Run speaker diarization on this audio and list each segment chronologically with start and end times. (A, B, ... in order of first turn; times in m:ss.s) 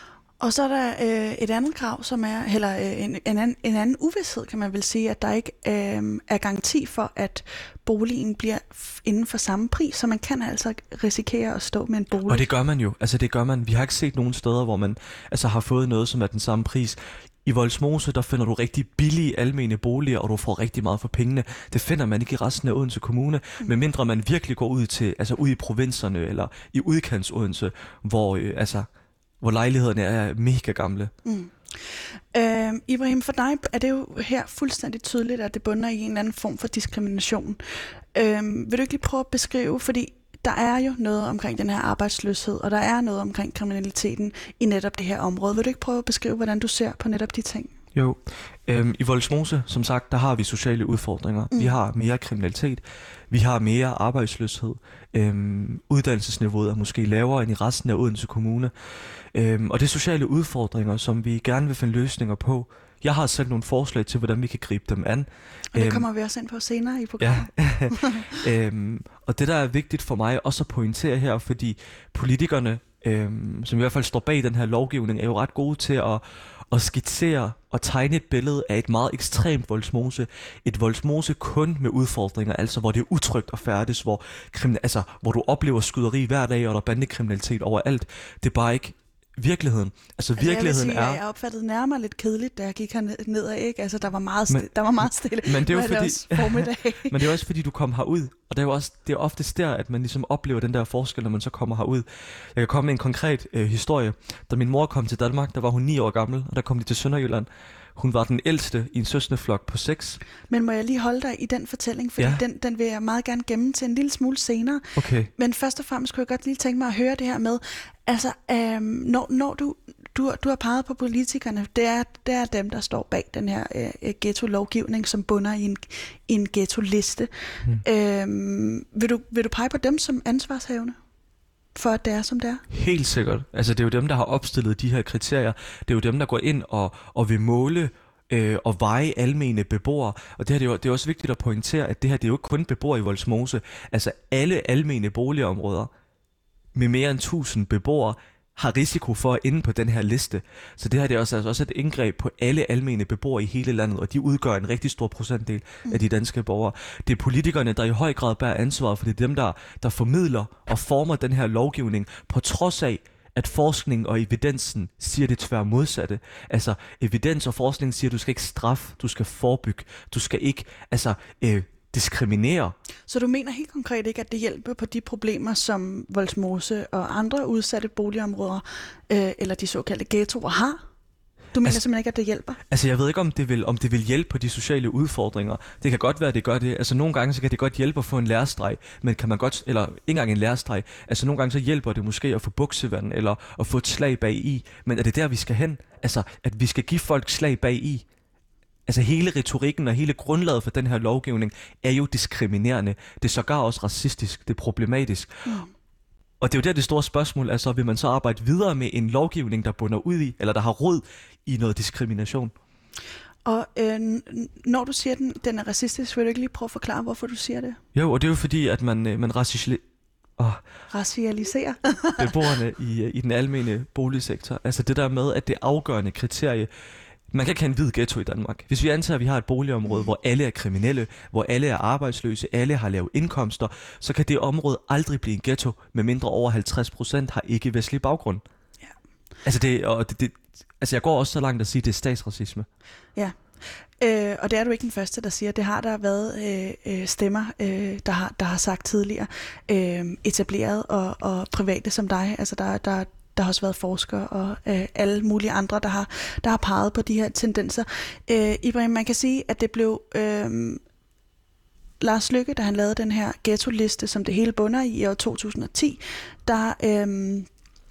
0:00.4-0:12.5 A
0:12.3-0:28.9 B
0:29.4-0:31.1 B
0:31.2-0:47.7 A
0:47.9-1:06.0 B
1:05.7-1:08.4 A
1:07.2-1:31.2 B
1:30.4-1:37.3 A
1:34.5-1:50.2 B
1:50.5-2:11.0 A
1:54.9-1:55.3 B
2:11.7-2:12.6 A
2:12.7-2:25.9 B
2:26.7-2:52.7 B
2:53.1-3:00.8 A
3:01.5-3:02.6 A
3:02.7-3:18.0 B
3:18.9-3:25.4 B
3:26.4-3:32.5 B
3:33.4-3:37.8 A
3:37.9-3:39.8 B
3:40.4-3:40.6 B
3:40.9-3:42.5 A
3:42.2-3:46.7 B
3:47.3-3:58.4 B
3:59.4-4:02.7 B
4:04.0-4:20.8 A
4:22.0-4:27.5 A